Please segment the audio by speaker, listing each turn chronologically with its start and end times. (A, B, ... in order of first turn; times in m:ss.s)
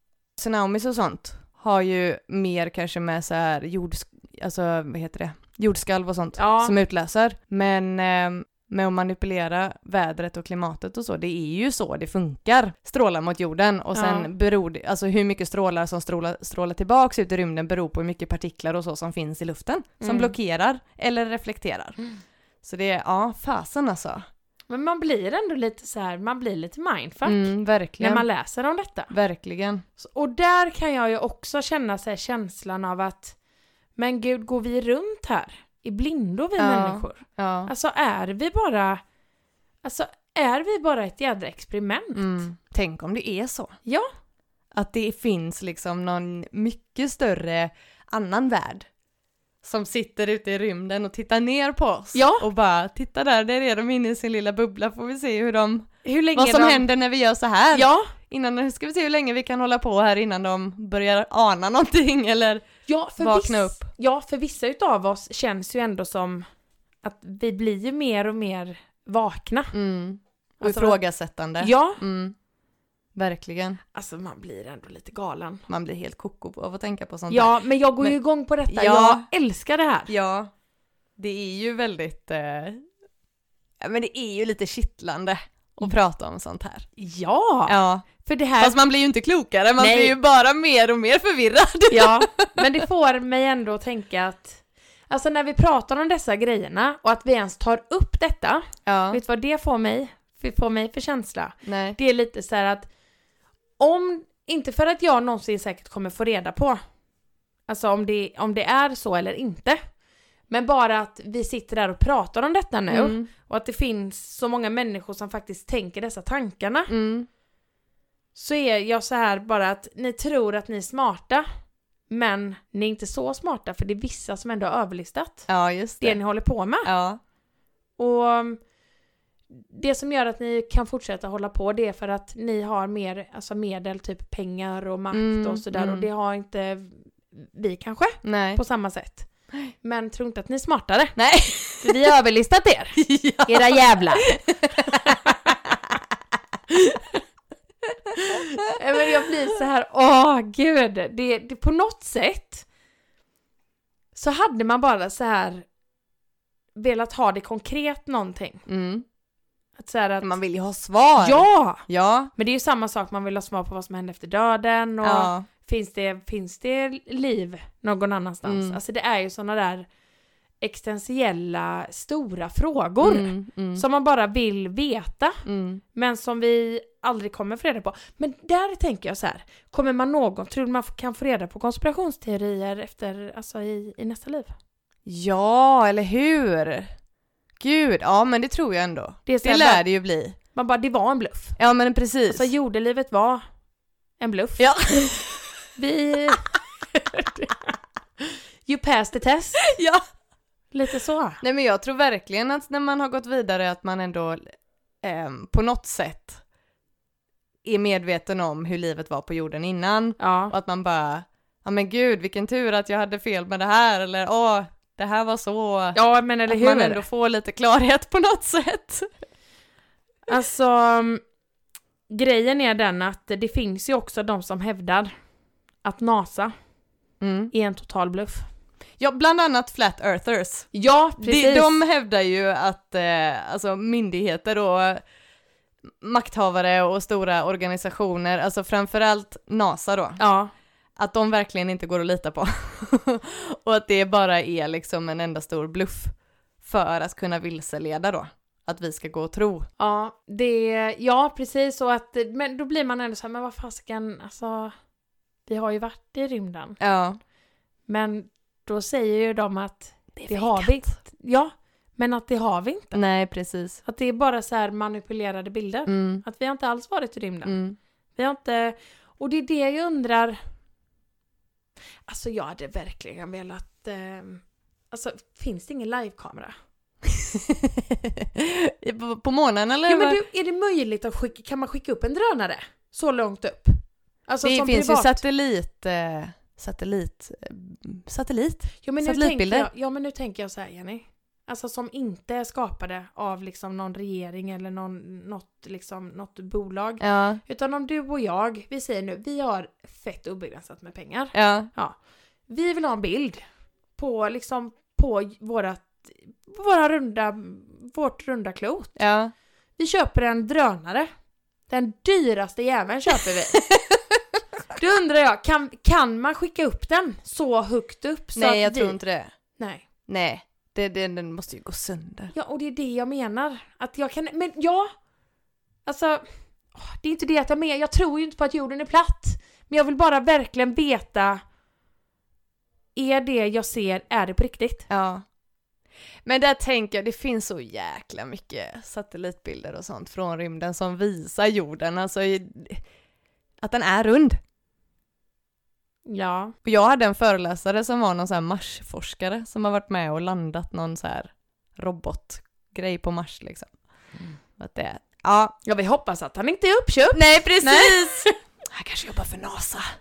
0:00.4-0:22.0 A
0:06.4-0:06.8 B
0:14.0-0:14.3 B
0:20.0-0:20.3 B
0:22.6-0:24.2 A
0:24.7-0:29.1 B
0:27.2-0:28.2 A
0:29.1-0:29.8 A
0:30.0-0:33.4 B
0:34.0-0:39.0 B
0:36.6-0:37.7 A
0:39.8-0:42.4 B
0:42.2-0:43.8 A
0:44.7-0:48.9 A
0:49.6-1:02.7 A
0:52.1-0:52.4 B
0:56.0-0:56.9 B
0:57.7-0:58.1 B
1:02.9-1:06.5 B
1:03.2-1:03.9 A
1:07.0-1:09.7 B
1:09.7-1:12.4 A
1:10.6-1:11.0 B
1:11.6-1:12.0 B
1:13.2-1:13.8 A
1:13.9-1:15.6 B
1:15.7-1:18.2 A
1:17.3-1:20.1 B
1:18.7-1:19.2 A
1:20.1-1:20.5 A
1:21.2-1:22.8 A
1:23.8-1:26.9 A
1:27.0-1:28.8 B
1:27.7-1:28.1 A
1:28.6-1:32.7 A
1:29.8-1:30.2 B
1:31.9-1:42.9 B
1:38.9-1:39.2 A
1:41.6-1:42.0 A
1:43.8-1:46.8 B
1:47.7-1:49.8 B
1:50.5-1:56.9 B
1:52.9-1:53.3 A
1:56.9-1:57.3 A
1:58.4-2:01.5 B
2:02.1-2:05.5 B
2:05.5-2:06.2 A
2:06.0-2:06.9 B
2:06.8-2:07.2 A
2:08.0-2:08.6 B
2:09.5-2:19.3 B
2:15.1-2:16.1 A
2:18.2-2:18.6 A
2:19.8-2:21.2 B
2:21.2-2:22.0 A
2:21.8-2:25.4 B
2:23.0-2:26.0 A
2:28.2-2:32.7 B
2:34.2-2:35.7 B
2:36.8-2:38.6 B
2:38.7-2:39.0 A
2:39.8-2:40.3 B
2:40.2-2:42.3 A
2:41.2-2:41.8 B
2:42.4-2:49.9 B
2:45.0-2:45.5 A
2:48.4-2:48.8 A
2:50.6-2:55.4 B
2:53.0-2:53.8 A
2:55.5-2:55.8 A
2:55.9-3:04.5 B
3:05.1-3:06.9 A
3:07.6-3:10.4 A
3:09.3-3:09.8 B
3:10.5-3:11.6 B
3:11.6-3:12.5 A
3:12.3-3:13.4 B
3:14.2-3:15.1 B
3:14.6-3:15.6 A
3:15.8-3:16.5 B
3:17.1-3:17.6 B
3:18.7-3:19.6 B
3:19.6-3:20.0 A
3:20.7-3:21.4 B
3:21.4-3:24.5 A
3:25.0-3:26.4 A
3:27.6-3:39.1 A
3:30.2-3:30.5 B
3:36.0-3:37.0 B
3:40.3-3:41.2 B
3:42.1-3:45.1 B
3:45.8-3:46.5 B
3:47.2-3:47.5 A
3:47.5-3:48.4 B
3:49.0-3:55.0 A
3:50.7-3:51.8 B
3:56.0-4:00.2 A
4:00.2-4:00.5 B
4:01.0-4:09.7 A
4:09.8-4:14.7 B
4:15.5-4:16.8 B
4:16.8-4:17.2 A
4:17.9-4:23.0 B
4:20.2-4:20.9 A
4:22.9-4:23.8 A
4:23.8-4:27.6 B
4:25.9-4:26.2 A
4:27.4-4:27.8 A
4:28.2-4:30.4 B
4:32.1-4:36.5 B
4:37.0-4:40.2 A
4:39.9-4:45.2 B
4:44.4-4:49.7 A
4:48.8-5:02.0 B
4:57.0-4:57.4 A
5:01.3-5:01.7 A
5:02.5-5:03.4 B
5:04.0-5:09.0 B
5:09.0-5:09.3 A
5:09.8-5:11.1 B
5:11.7-5:13.6 B
5:13.6-5:14.0 A
5:14.8-5:19.0 B
5:18.4-5:19.3 A
5:19.6-5:19.8 B
5:20.1-5:22.3 A
5:22.3-5:24.9 B
5:25.9-5:26.2 B
5:26.7-5:31.4 B
5:33.0-5:34.9 B
5:34.9-5:35.2 A
5:36.2-5:42.8 A
5:43.6-5:44.4 A
5:46.1-5:46.6 B
5:46.6-5:53.7 A
5:54.6-5:55.6 A
5:55.6-5:58.3 B
5:57.1-5:59.8 A